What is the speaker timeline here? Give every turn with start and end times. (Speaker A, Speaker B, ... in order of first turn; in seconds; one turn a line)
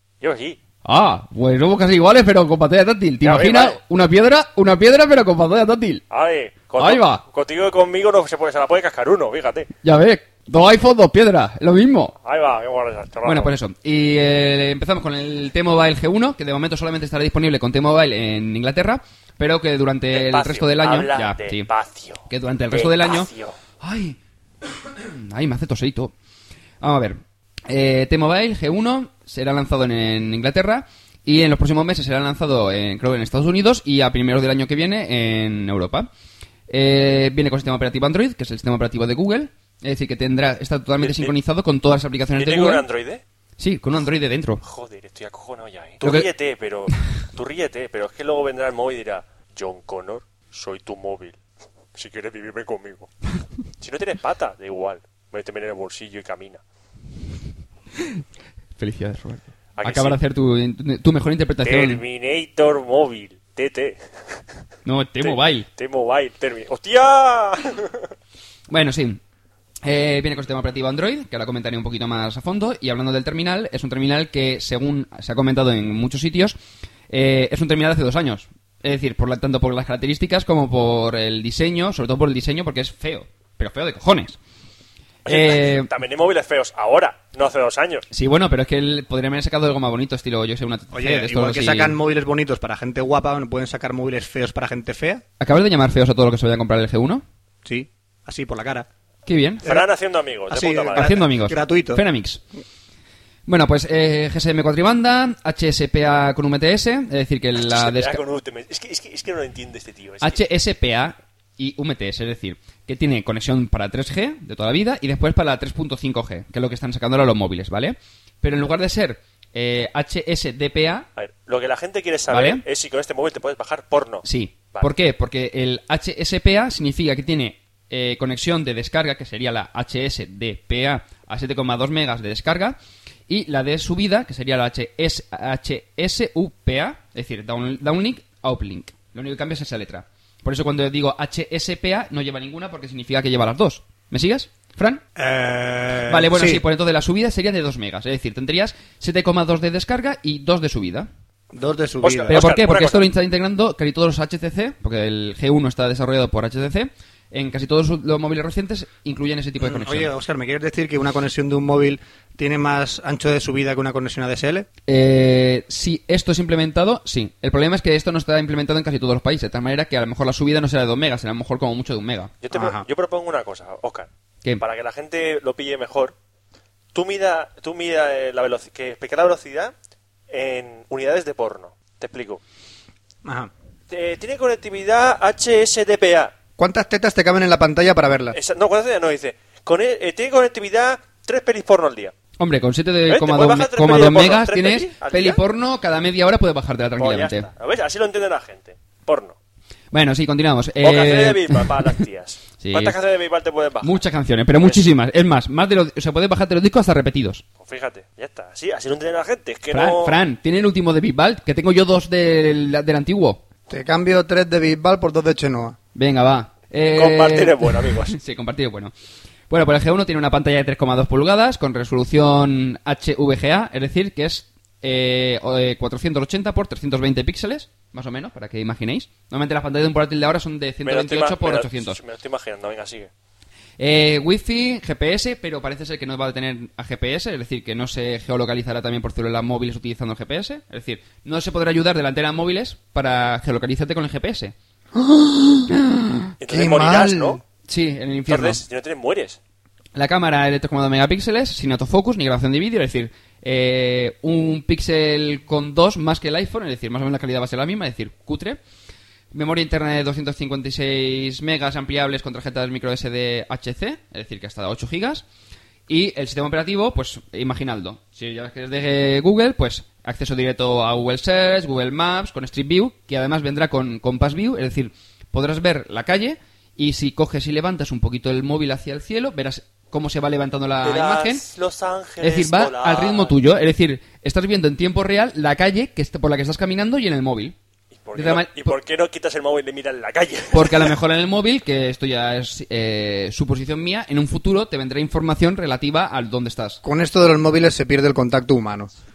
Speaker A: 0.2-0.6
Speaker B: 0.8-6.0
Speaker A: 3.2-3.8
Speaker A: 6.1-9.7
Speaker B: 6.8-7.2
Speaker B: 9.8-12.2
Speaker A: 12.2-13.5
Speaker B: 13.2-21.7
Speaker A: 20.1-23.6
Speaker B: 22.3-24.2
Speaker B: 24.9-26.1
Speaker B: 26.8-36.1
Speaker B: 36.7-42.8
Speaker A: 41.0-41.3
Speaker A: 42.3-43.2
Speaker B: 43.6-44.6
Speaker A: 44.6-51.4
Speaker B: 46.0-46.3
Speaker A: 51.9-53.1
Speaker A: 53.8-56.6
Speaker B: 58.0-58.2
Speaker B: 58.8-62.0
Speaker A: 59.8-60.2
Speaker A: 61.6-64.0
Speaker B: 64.8-65.7
Speaker A: 65.2-68.1
Speaker B: 68.7-69.2
Speaker B: 69.8-76.6
Speaker B: 77.1-84.4
Speaker B: 85.2-85.9
Speaker A: 85.2-88.0
Speaker B: 88.1-92.0
Speaker C: 90.9-95.2
Speaker B: 95.4-97.2
Speaker C: 97.6-98.9
Speaker B: 99.2-99.6
Speaker A: 99.6-101.1
Speaker C: 100.5-102.0
Speaker B: 100.9-102.4
Speaker B: 103.5-108.2
Speaker A: 107.6-110.4
Speaker B: 110.2-121.1
Speaker A: 121.2-124.9
Speaker B: 122.3-122.6
Speaker B: 124.2-132.8
Speaker B: 133.3-145.0
Speaker C: 145.2-146.6
Speaker B: 146.1-151.1
Speaker C: 151.5-152.4
Speaker A: 152.0-153.0
Speaker B: 152.3-160.1
Speaker C: 159.6-164.7
Speaker B: 164.9-172.3
Speaker A: 172.4-174.1
Speaker C: 172.5-172.8
Speaker A: 174.6-176.1
Speaker A: 176.9-179.7
Speaker A: 180.3-182.4
Speaker C: 183.2-183.5
Speaker A: 183.9-186.3
Speaker C: 186.6-188.4
Speaker A: 188.3-192.1
Speaker B: 192.4-197.5
Speaker A: 193.1-195.4
Speaker A: 197.0-199.3
Speaker B: 199.9-201.7
Speaker A: 200.8-204.0
Speaker B: 202.6-202.9
Speaker B: 203.8-207.4
Speaker A: 204.6-204.9
Speaker A: 207.6-210.2
Speaker B: 209.7-213.4
Speaker C: 213.7-215.8
Speaker B: 215.9-218.9
Speaker A: 216.9-218.2
Speaker B: 219.5-232.0
Speaker A: 230.8-233.1
Speaker B: 233.8-244.5
Speaker C: 244.9-245.7
Speaker A: 246.4-247.4
Speaker C: 246.5-247.4
Speaker B: 247.7-248.6
Speaker A: 248.3-249.4
Speaker B: 249.9-258.6
Speaker B: 259.3-265.2
Speaker B: 265.9-281.4
Speaker A: 280.8-283.3
Speaker B: 282.2-287.5
Speaker A: 288.0-290.9
Speaker B: 288.1-288.8
Speaker B: 290.5-296.8
Speaker C: 296.8-298.9